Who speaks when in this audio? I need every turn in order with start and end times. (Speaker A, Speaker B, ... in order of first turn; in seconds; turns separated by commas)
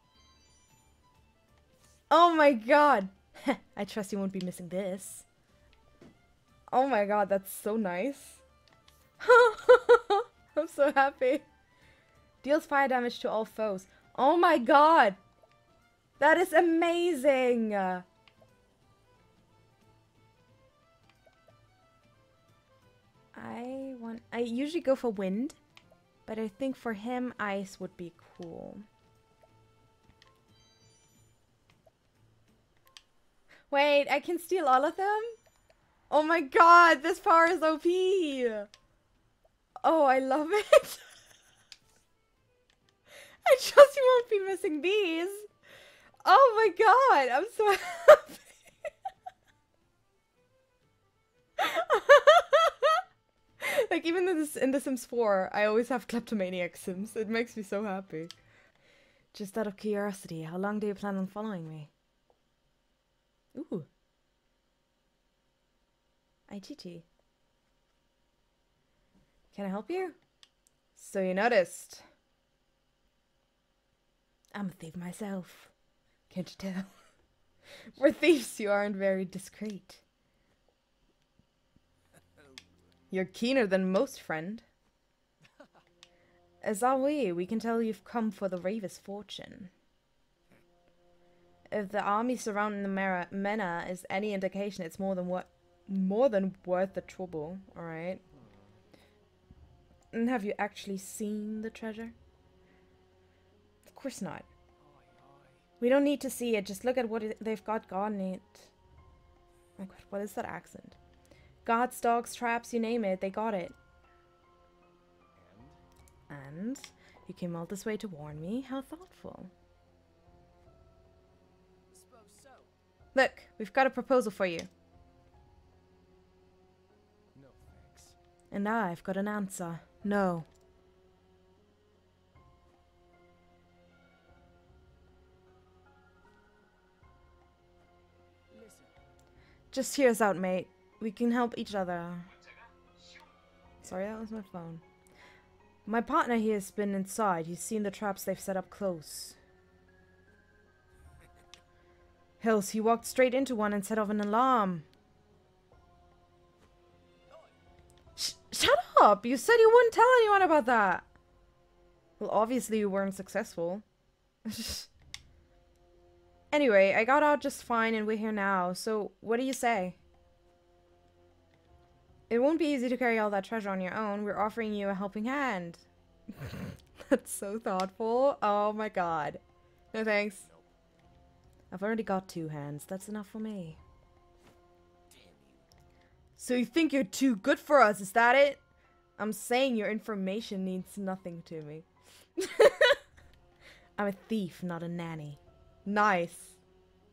Speaker A: 2.1-5.3, Speaker A: 6.7-8.4, Speaker A: 9.2-11.5, Speaker A: 12.4-15.2, Speaker A: 16.2-18.1, Speaker A: 23.3-25.6, Speaker A: 26.3-28.9, Speaker A: 33.7-35.4, Speaker A: 36.1-38.7, Speaker A: 39.8-41.1, Speaker A: 43.5-45.5, Speaker A: 46.2-48.6, Speaker A: 51.6-53.0, Speaker A: 53.6-58.3, Speaker A: 59.3-61.9, Speaker A: 63.5-63.9, Speaker A: 66.5-67.1, Speaker A: 69.5-70.2, Speaker A: 71.0-72.1, Speaker A: 74.5-75.7, Speaker A: 76.3-76.9, Speaker A: 77.9-80.0, Speaker A: 83.1-84.7, Speaker A: 86.6-89.7, Speaker A: 91.7-98.2, Speaker B: 98.3-98.8, Speaker A: 100.1-102.2, Speaker A: 103.8-104.5, Speaker B: 104.8-105.6, Speaker A: 105.8-108.7, Speaker A: 109.8-111.0, Speaker A: 111.7-113.8, Speaker B: 115.3-115.8, Speaker A: 116.3-119.5, Speaker B: 121.9-122.7, Speaker A: 123.1-124.7, Speaker B: 127.3-128.2, Speaker A: 128.5-130.5, Speaker B: 138.5-138.9, Speaker A: 139.7-142.3, Speaker A: 143.8-144.8, Speaker A: 145.9-149.4, Speaker A: 152.4-154.9, Speaker A: 158.2-161.1, Speaker A: 162.2-163.8, Speaker A: 164.5-164.9, Speaker A: 166.5-170.0, Speaker A: 172.3-179.4, Speaker A: 179.9-180.5, Speaker A: 181.7-183.8, Speaker B: 185.1-185.7, Speaker A: 186.4-188.6, Speaker A: 189.2-193.0, Speaker A: 194.0-196.6